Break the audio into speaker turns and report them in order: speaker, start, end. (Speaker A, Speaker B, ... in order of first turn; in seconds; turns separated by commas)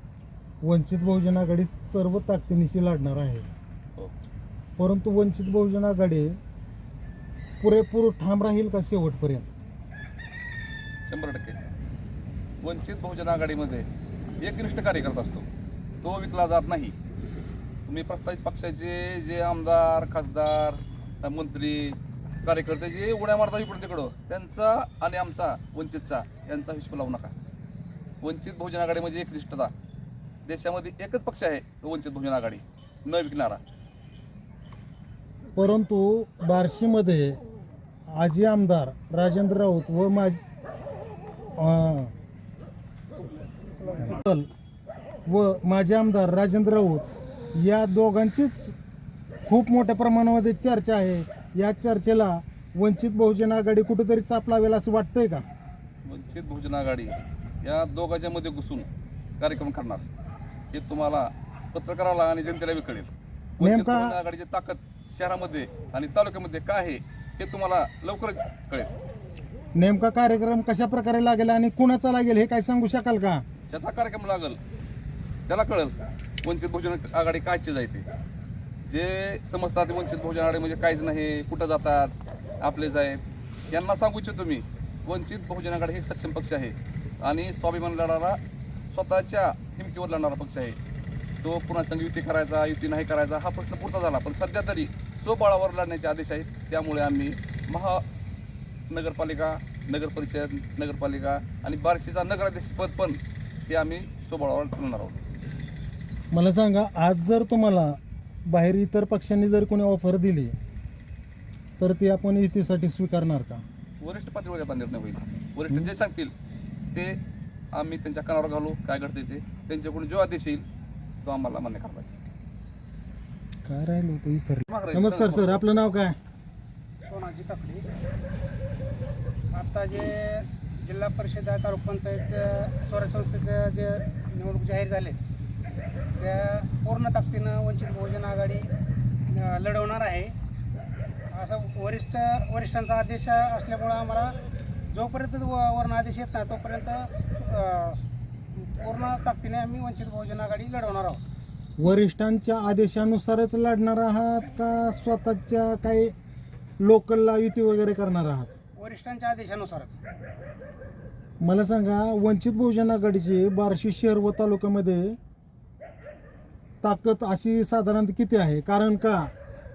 Speaker A: 0.6-3.5, Speaker A: 4.8-6.4, Speaker A: 7.6-9.5, Speaker B: 11.1-11.6, Speaker B: 12.6-13.9, Speaker B: 14.4-15.5, Speaker B: 16.0-16.9, Speaker B: 17.9-27.3, Speaker B: 28.2-29.7, Speaker B: 30.5-33.6, Speaker A: 35.6-37.4, Speaker A: 38.1-40.4, Speaker A: 41.6-42.1, Speaker A: 43.9-44.5, Speaker A: 45.3-48.8, Speaker A: 49.5-55.4, Speaker B: 56.0-58.9, Speaker B: 59.4-60.0, Speaker B: 60.7-63.1, Speaker A: 63.6-64.2, Speaker B: 63.6-68.9, Speaker A: 69.8-73.4, Speaker B: 73.7-74.6, Speaker B: 75.5-78.1, Speaker B: 78.8-88.4, Speaker B: 88.9-90.8, Speaker B: 91.4-98.0, Speaker B: 98.9-105.2, Speaker A: 106.3-110.5, Speaker A: 111.8-113.6, Speaker B: 114.0-116.3, Speaker B: 116.9-117.2, Speaker B: 117.7-120.7, Speaker B: 121.2-122.2, Speaker A: 123.7-126.2, Speaker B: 124.7-125.7, Speaker C: 127.0-127.8, Speaker C: 129.5-135.2, Speaker C: 136.2-138.7, Speaker C: 139.3-140.3, Speaker C: 141.3-144.3, Speaker C: 144.9-148.0, Speaker C: 148.5-151.2, Speaker A: 151.8-156.1, Speaker A: 156.8-158.5, Speaker C: 158.8-160.0, Speaker A: 161.4-165.2, Speaker A: 166.8-169.3